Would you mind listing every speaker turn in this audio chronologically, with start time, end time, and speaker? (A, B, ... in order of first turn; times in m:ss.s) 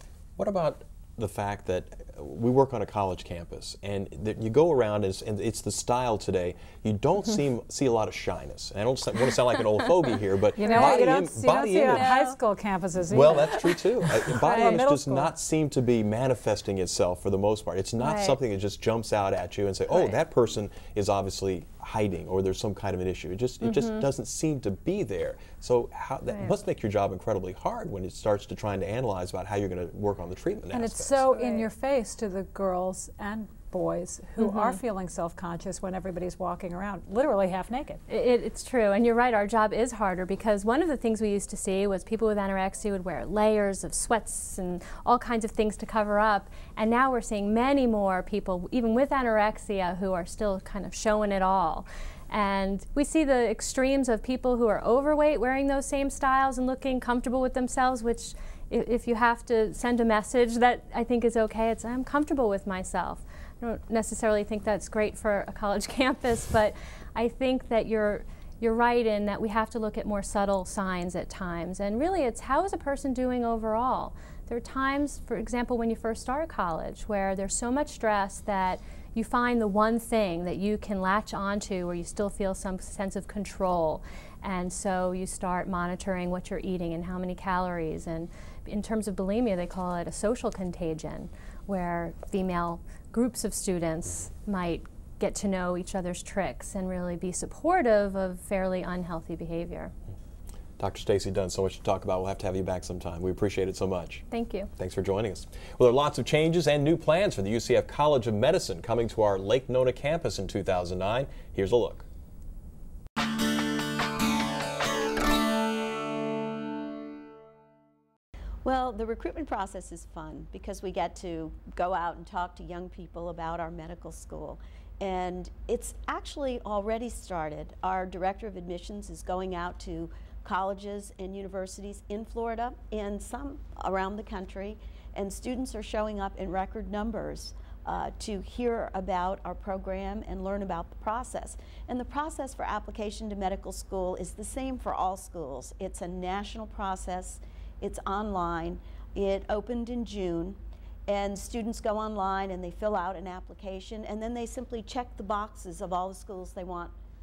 0:00.4-0:12.2 A
0:10.6-0:15.3 B
0:10.6-0:11.1 C
0:11.8-0:12.4 C
0:13.1-0:31.3 A
0:18.0-0:18.4 C
0:23.6-0:24.1 C
0:30.7-0:38.0 B
0:31.3-0:31.7 C
0:34.4-0:34.8 C
0:38.1-1:39.9 C
1:40.8-1:44.2 A
1:44.3-1:44.7 C
1:44.8-1:52.1 A
1:58.6-2:36.9 D